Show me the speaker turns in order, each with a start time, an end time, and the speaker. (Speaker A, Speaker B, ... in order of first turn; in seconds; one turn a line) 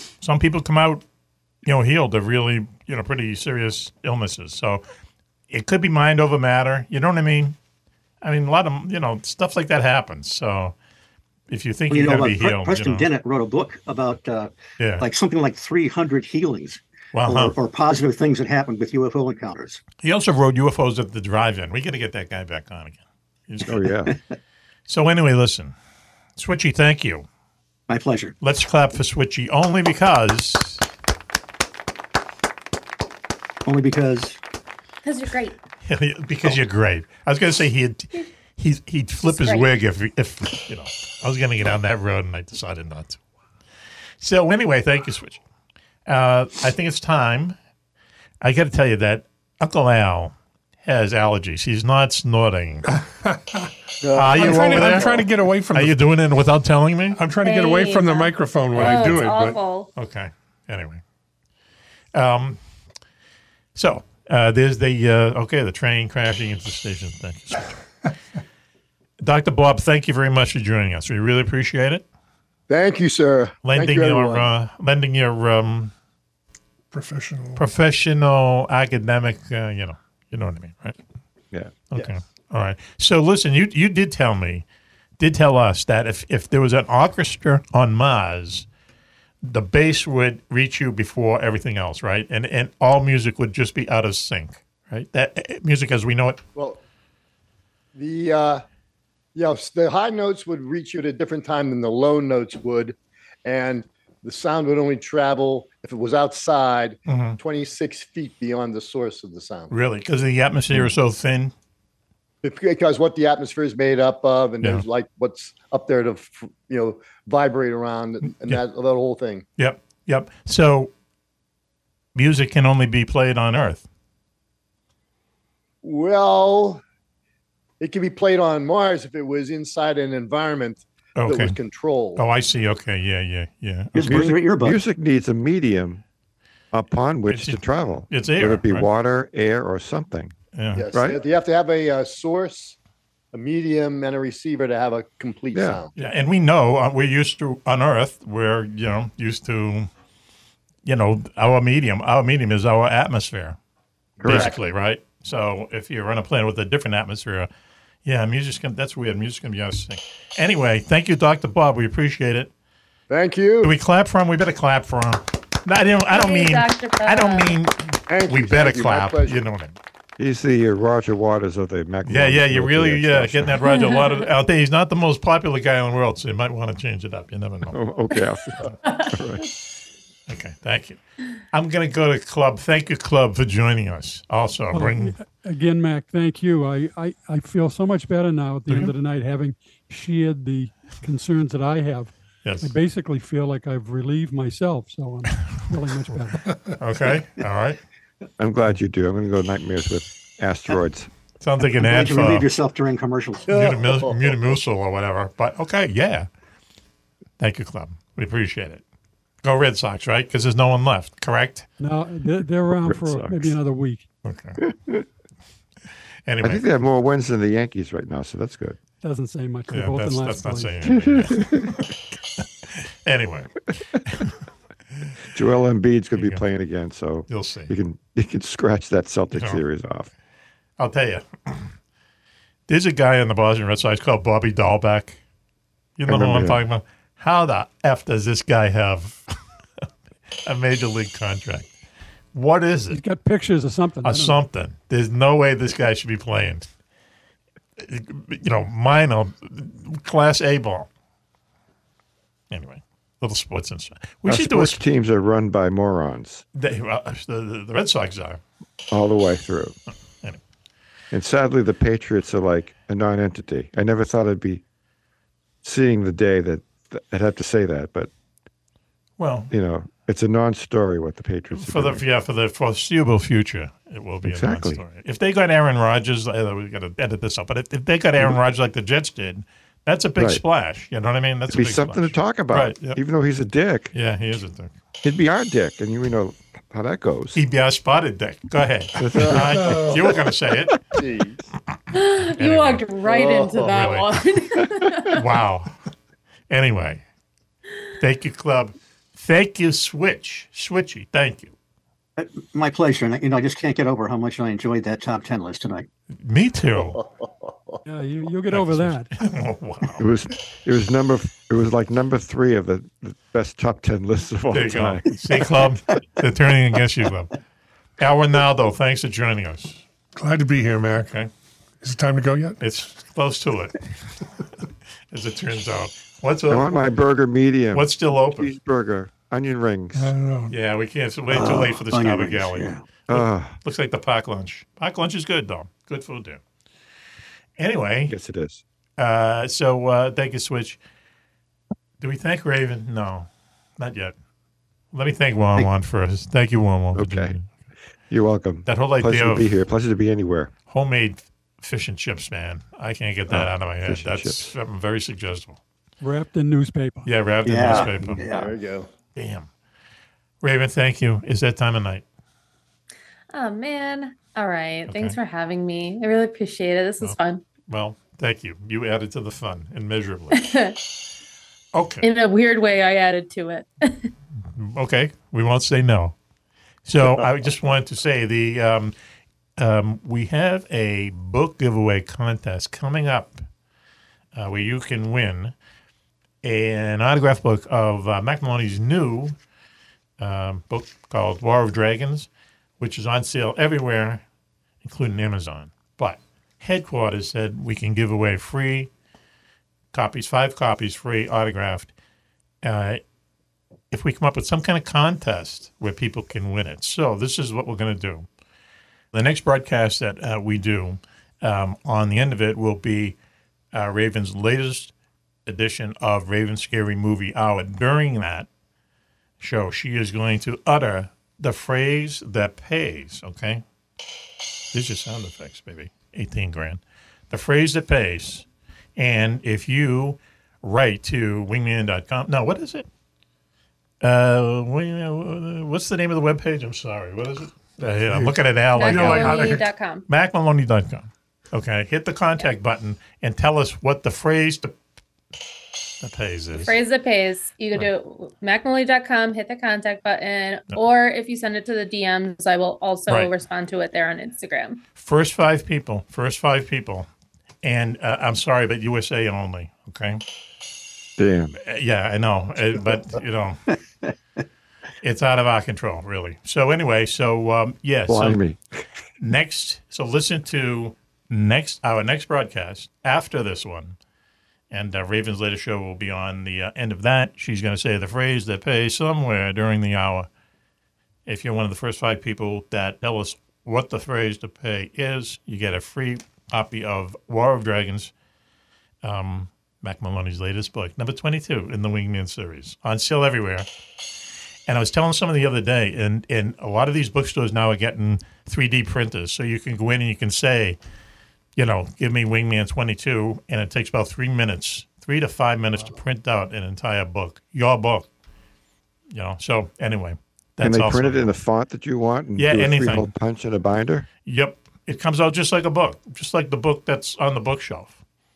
Speaker A: 0.2-1.0
Speaker A: 1.6-4.8
Speaker A: 5.5-7.5
Speaker A: 8.2-10.7
Speaker A: 11.5-13.1
Speaker B: 11.9-19.8
Speaker A: 14.8-15.1
Speaker A: 17.1-17.5
Speaker A: 20.0-23.8
Speaker C: 23.6-24.1
Speaker A: 24.9-25.7
Speaker A: 26.4-27.2
Speaker B: 27.9-28.3
Speaker A: 28.4-30.8
Speaker B: 33.6-34.4
Speaker D: 35.0-35.5
Speaker A: 35.8-43.2
Speaker D: 39.3-39.7
Speaker A: 44.2-45.4
Speaker A: 46.0-47.5
Speaker A: 48.4-52.9
Speaker E: 52.9-53.7
Speaker F: 54.0-55.2
Speaker A: 54.1-57.2
Speaker E: 54.2-56.1
Speaker E: 57.1-59.6
Speaker D: 57.4-59.9
Speaker A: 58.8-59.1
Speaker A: 59.9-61.0
Speaker A: 62.1-62.6
Speaker A: 63.7-67.8
Speaker A: 69.2-72.0
Speaker F: 72.7-74.5
Speaker A: 73.6-75.9
Speaker E: 76.9-77.6
Speaker A: 77.5-81.0
Speaker A: 81.9-84.6
Speaker A: 85.2-88.7
Speaker A: 89.4-96.4
Speaker F: 96.5-96.8
Speaker F: 97.9-98.6
Speaker F: 99.3-109.7
Speaker A: 107.1-107.4
Speaker A: 109.7-111.5
Speaker F: 112.4-119.4
Speaker A: 119.6-120.9
Speaker A: 122.1-123.8
Speaker F: 125.8-126.8
Speaker F: 127.8-132.2
Speaker A: 131.2-131.5
Speaker A: 132.2-134.4
Speaker B: 133.9-134.8
Speaker C: 134.0-136.0
Speaker C: 136.7-140.3
Speaker A: 137.3-138.9
Speaker A: 140.5-140.9
Speaker F: 140.7-142.8
Speaker C: 140.9-141.2
Speaker F: 143.3-145.9
Speaker C: 145.5-145.8
Speaker A: 145.9-149.9
Speaker A: 150.8-153.6
Speaker F: 154.2-154.6
Speaker A: 154.2-157.5
Speaker A: 158.0-162.5
Speaker F: 163.1-163.8
Speaker A: 163.6-169.8
Speaker D: 166.1-167.5
Speaker F: 168.1-169.4
Speaker C: 170.2-173.6
Speaker A: 172.1-177.7
Speaker D: 173.6-174.2
Speaker C: 177.7-179.4
Speaker A: 180.3-181.0
Speaker A: 181.5-185.1
Speaker G: 184.7-196.5
Speaker A: 192.4-192.7
Speaker A: 195.4-195.6
Speaker A: 196.8-197.8
Speaker C: 198.4-201.1
Speaker A: 201.4-202.5
Speaker B: 201.8-203.5
Speaker A: 203.5-206.3
Speaker F: 203.5-204.5
Speaker A: 207.4-208.8
Speaker A: 209.4-211.7
Speaker G: 211.8-214.1
Speaker C: 212.8-213.6
Speaker A: 214.2-214.6
Speaker C: 214.7-215.0
Speaker A: 216.3-216.7
Speaker C: 216.4-218.8
Speaker G: 219.0-220.9
Speaker A: 219.7-221.9
Speaker C: 220.8-221.8
Speaker A: 222.6-224.3
Speaker C: 225.3-230.1
Speaker A: 227.3-227.7
Speaker A: 229.3-229.6
Speaker A: 230.8-231.7
Speaker A: 232.7-235.2
Speaker A: 235.9-239.2
Speaker C: 236.1-236.6
Speaker A: 240.4-241.7
Speaker A: 242.3-243.0
Speaker G: 242.9-244.4
Speaker A: 244.0-246.7
Speaker A: 247.8-250.9
Speaker A: 252.5-254.8
Speaker C: 254.2-256.4
Speaker A: 256.6-258.4
Speaker C: 258.9-259.7
Speaker C: 261.1-264.6
Speaker C: 265.6-268.1
Speaker A: 269.2-269.5
Speaker C: 269.5-272.0
Speaker A: 271.5-283.0
Speaker C: 274.2-274.8
Speaker C: 281.5-283.9
Speaker A: 283.9-284.7
Speaker C: 285.0-287.4
Speaker A: 287.3-290.9
Speaker C: 289.0-290.1
Speaker F: 289.2-289.9
Speaker F: 291.0-291.4
Speaker D: 291.9-295.2
Speaker A: 292.3-292.9
Speaker F: 293.0-293.9
Speaker A: 293.6-294.2
Speaker A: 295.1-295.7
Speaker A: 296.5-297.0
Speaker A: 298.0-301.5
Speaker B: 302.2-305.9
Speaker A: 306.2-307.0
Speaker F: 307.0-307.8
Speaker G: 307.9-309.1
Speaker A: 308.5-310.1
Speaker C: 310.0-315.1
Speaker A: 314.5-317.3
Speaker A: 318.0-319.8
Speaker E: 320.1-321.1
Speaker A: 321.0-321.3
Speaker E: 321.8-322.6
Speaker A: 322.6-323.8
Speaker A: 325.1-326.7
Speaker C: 326.5-330.1
Speaker A: 327.7-328.5
Speaker E: 329.9-330.6
Speaker A: 330.5-336.4
Speaker B: 331.3-332.8
Speaker C: 333.1-333.6
Speaker A: 337.6-338.1
Speaker C: 338.1-338.6
Speaker A: 339.0-340.8
Speaker A: 342.0-344.1
Speaker A: 344.9-347.4
Speaker C: 346.9-347.3
Speaker C: 348.1-350.5
Speaker A: 348.6-349.5
Speaker A: 350.7-355.6
Speaker C: 353.3-354.5
Speaker G: 356.0-357.1
Speaker A: 357.1-358.2
Speaker B: 357.4-358.5
Speaker F: 357.7-358.9
Speaker A: 359.1-359.5
Speaker A: 360.4-362.0
Speaker D: 363.3-367.4
Speaker A: 364.9-365.2
Speaker A: 367.7-370.5
Speaker D: 370.3-370.8
Speaker A: 371.7-372.1
Speaker D: 372.0-374.1
Speaker A: 374.5-376.1
Speaker A: 376.8-378.9
Speaker A: 379.6-383.4
Speaker A: 384.3-385.5
Speaker A: 386.4-389.3
Speaker A: 390.2-394.2
Speaker A: 394.8-398.9
Speaker A: 399.9-401.9
Speaker A: 402.6-403.0
Speaker A: 403.9-408.3
Speaker A: 409.1-413.1
Speaker A: 413.7-414.9
Speaker A: 415.5-418.5
Speaker A: 419.4-423.6
Speaker A: 424.7-428.4
Speaker A: 428.9-432.9
Speaker A: 434.0-444.7
Speaker E: 438.1-439.7
Speaker D: 438.7-440.1
Speaker A: 446.0-446.7
Speaker D: 446.6-454.8
Speaker A: 455.0-457.1
Speaker A: 457.6-460.2
Speaker C: 461.2-461.6
Speaker A: 461.6-463.6
Speaker A: 465.0-468.4
Speaker C: 468.1-468.6
Speaker A: 469.2-473.9
Speaker A: 474.7-480.3
Speaker A: 481.2-488.1
Speaker A: 489.0-493.7
Speaker A: 494.7-500.8
Speaker A: 501.6-508.1
Speaker A: 509.1-511.2
Speaker C: 510.6-514.1
Speaker A: 512.4-513.1
Speaker A: 514.2-518.0